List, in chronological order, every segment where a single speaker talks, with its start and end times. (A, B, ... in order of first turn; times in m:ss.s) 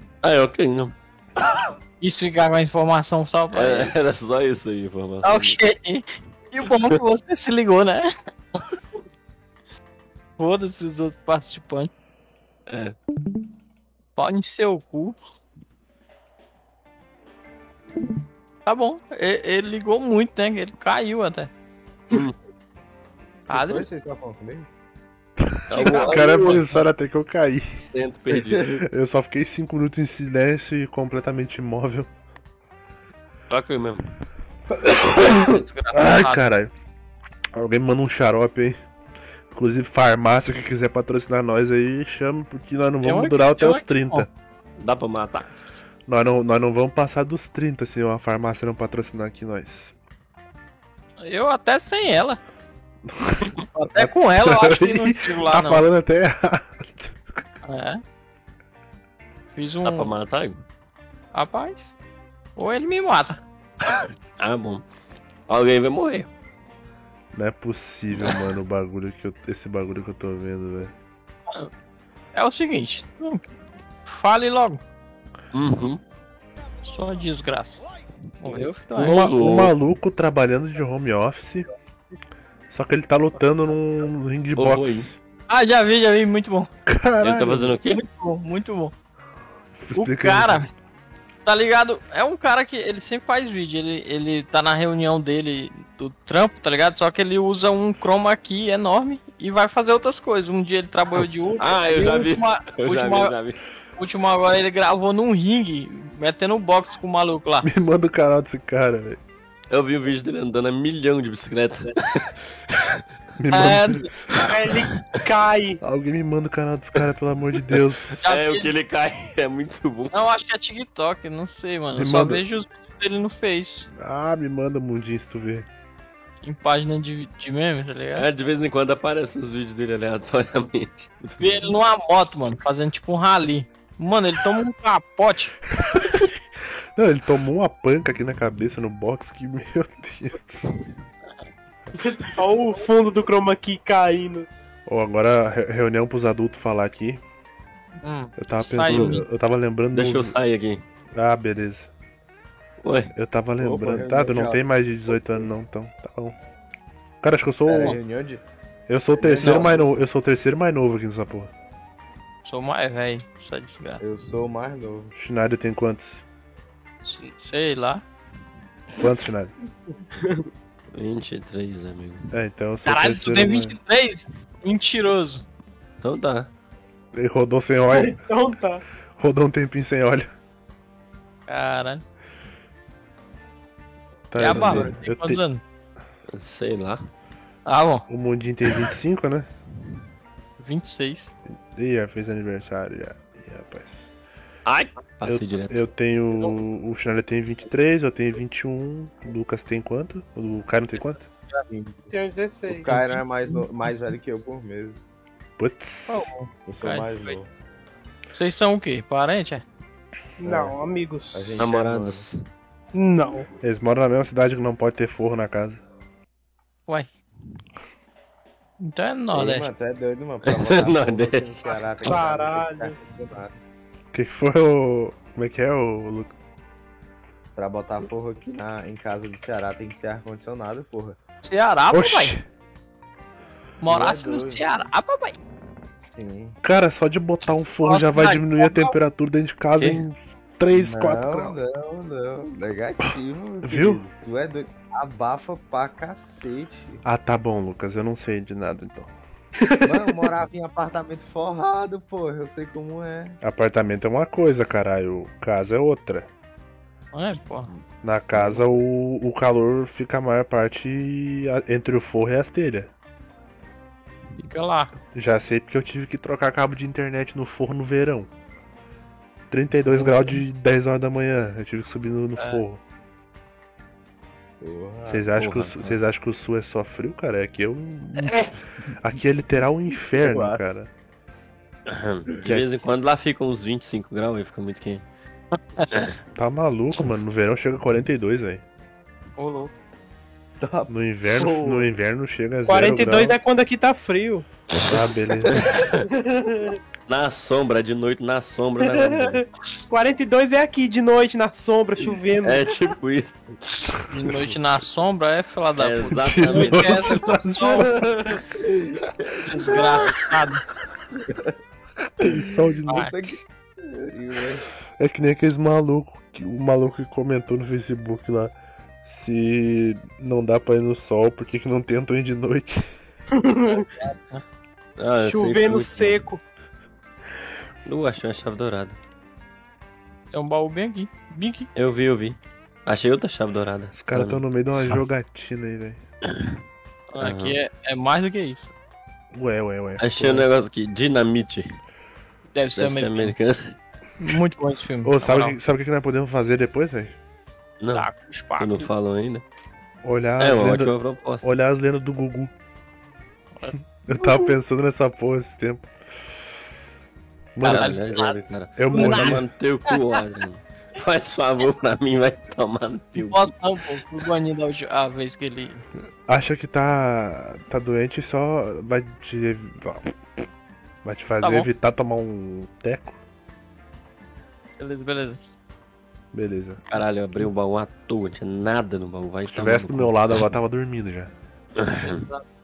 0:00.2-0:01.7 A
0:02.0-0:03.9 B
0:03.5-0:05.6 A
0:05.2-0:08.2 B
0:10.4-0:11.9 B
0:12.7-0:13.0 A
0:14.2-0:15.2 B
0:18.7-0:21.5 B
0:22.1-0:22.4 A
0:23.5-0:23.9 B
0:23.5-0:24.7 C
0:25.4-0:27.8 D
0:25.7-0:26.6 A
0:25.7-0:26.8 B
0:27.8-0:28.8 A
0:28.3-0:28.7 C
0:28.7-0:32.1 D
0:33.5-0:34.1 A
0:34.8-0:36.7 D
0:35.1-0:36.4 B
0:37.5-0:38.8 D
0:39.5-0:44.3 D
0:43.0-0:44.3 B
0:44.8-0:45.6 A
0:46.1-0:49.9 D
0:51.2-0:52.4 B
0:53.1-0:57.2 D
0:53.7-0:55.9 B
0:57.6-0:58.0 B
0:59.5-1:00.1 B
0:59.8-1:00.6 A
1:01.3-1:02.0 B
1:02.6-1:03.4 B
1:03.8-1:04.8 A
1:05.5-1:06.3 A
1:07.3-1:10.9 D
1:08.2-1:08.5 A
1:12.3-1:13.5 B
1:14.1-1:14.8 B
1:15.5-1:16.0 A
1:16.8-1:17.8 B
1:18.4-1:19.2 B
1:18.5-1:19.7 A
1:19.0-1:21.7 D
1:22.7-1:25.2 D
1:24.6-1:25.1 A
1:25.5-1:26.7 B
1:26.9-1:27.8 D
1:27.2-1:28.0 A
1:27.9-1:28.9 B
1:29.8-1:30.6 D
1:29.9-1:30.7 B
1:31.5-1:43.3 B
1:41.2-1:43.6 A
1:44.0-1:47.7 B
1:47.6-1:49.2 D
1:49.7-1:53.0 A
1:53.4-1:54.1 D
1:53.5-1:54.1 B
1:54.3-1:55.0 A
1:54.3-1:55.8 E
1:55.8-1:58.2 D
1:57.6-2:00.2 A
1:58.2-1:58.7 B
2:00.1-2:03.9 B
2:02.0-2:02.4 D
2:03.9-2:05.7 D
2:06.4-2:08.3 B
2:08.2-2:11.7 A
2:11.4-2:15.6 B
2:15.8-2:16.4 D
2:17.0-2:20.7 D
2:22.0-2:24.5 E
2:24.9-2:27.2 D
2:28.0-2:29.2 B
2:28.4-2:30.4 D
2:28.9-2:29.2 A
2:29.9-2:30.8 A
2:31.2-2:31.9 D
2:32.8-2:33.1 A
2:33.2-2:36.4 D
2:33.6-2:35.5 C
2:37.2-2:38.0 D
2:37.7-2:38.4 C
2:38.9-2:41.5 D
2:39.2-2:39.9 C
2:39.4-2:39.7 B
2:42.4-2:44.0 B
2:44.0-2:45.1 C
2:45.2-2:46.2 D
2:47.0-2:48.0 B
2:49.0-2:49.5 D
2:50.2-2:50.4 E
2:50.9-2:52.3 A
2:52.3-2:53.8 D
2:52.9-2:55.4 B
2:56.0-2:56.5 A
2:57.1-2:58.2 D
2:57.9-2:58.8 E
2:59.2-3:00.3 D
3:01.5-3:02.0 B
3:04.3-3:05.4 D
3:04.4-3:05.6 B
3:04.5-3:04.9 A
3:06.3-3:07.0 A
3:07.7-3:08.1 B
3:08.1-3:09.5 D
3:10.6-3:11.3 B
3:11.7-3:14.1 D
3:14.7-3:15.9 A
3:15.2-3:21.3 D
3:21.7-3:22.1 C
3:22.1-3:23.1 E
3:22.7-3:25.0 C
3:25.6-3:26.3 D
3:26.1-3:27.4 B
3:26.7-3:27.5 C
3:28.3-3:29.6 B
3:30.4-3:31.6 E
3:30.4-3:30.8 C
3:31.3-3:32.3 C
3:31.6-3:32.4 A
3:32.9-3:33.5 E
3:33.6-3:35.8 D
3:38.8-3:39.7 B
3:39.3-3:43.6 C
3:40.5-3:42.2 A
3:42.0-3:43.0 E
3:44.1-3:46.3 D
3:47.6-3:51.2 C
3:51.4-3:52.4 B
3:51.9-3:52.4 D
3:53.8-3:55.4 B
3:53.9-3:54.6 C
3:56.0-3:56.6 C
3:56.6-4:01.6 D
3:57.8-3:58.9 B
4:00.7-4:07.0 C
4:03.6-4:04.0 D
4:07.0-4:09.1 D
4:09.6-4:10.1 E
4:09.8-4:13.4 C
4:13.4-4:16.3 D
4:17.1-4:17.7 B
4:18.0-4:22.9 D
4:18.3-4:18.7 C
4:24.4-4:24.9 B
4:25.1-4:28.3 D
4:29.5-4:32.8 D
4:32.4-4:32.6 B
4:34.6-4:35.3 C
4:35.1-4:40.9 D
4:35.4-4:36.0 A
4:40.2-4:40.6 C
4:41.9-4:45.0 A
4:46.4-4:48.6 D
4:49.4-4:49.7 B
4:50.6-4:51.9 C
4:50.9-4:53.4 D
4:52.7-4:54.5 E
4:53.0-4:53.3 C
4:54.7-4:56.1 A
4:54.8-4:55.7 D
4:56.0-4:56.8 E
4:57.1-4:59.5 A
4:58.8-5:02.7 E
5:02.4-5:03.4 A
5:04.0-5:07.9 B
5:04.3-5:04.5 D
5:05.8-5:07.2 A
5:06.2-5:08.0 D
5:07.6-5:08.4 E
5:08.5-5:09.8 C
5:09.4-5:10.6 B
5:11.2-5:11.5 C
5:12.2-5:13.3 D
5:12.2-5:14.7 C
5:15.0-5:18.5 D
5:19.0-5:22.8 D
5:23.3-5:23.9 E
5:23.7-5:24.4 B
5:25.0-5:26.2 A
5:25.2-5:26.4 E
5:27.9-5:29.0 A
5:30.3-5:31.7 B
5:31.8-5:35.0 A
5:33.9-5:36.0 D
5:37.1-5:38.7 B
5:37.2-5:37.6 A
5:39.3-5:40.5 D
5:40.0-5:41.8 A
5:42.5-5:43.3 B
5:42.8-5:43.8 A
5:44.2-5:45.6 B
5:45.0-5:47.2 D
5:47.8-5:49.4 A
5:47.9-5:48.9 B
5:50.0-5:52.5 D
5:50.4-5:51.5 A
5:53.6-5:54.5 B
5:54.1-5:55.9 D
5:57.6-5:58.0 D
5:57.6-6:03.5 A
5:57.6-5:58.4 B
5:58.8-5:59.4 D
5:58.9-6:00.0 B
6:03.2-6:05.8 B
6:06.3-6:10.2 D
6:11.0-6:13.2 D
6:11.4-6:11.7 B
6:14.8-6:15.4 B
6:16.3-6:16.8 D
6:16.9-6:20.4 A
6:19.5-6:21.3 D
6:21.8-6:22.3 A
6:22.0-6:22.4 B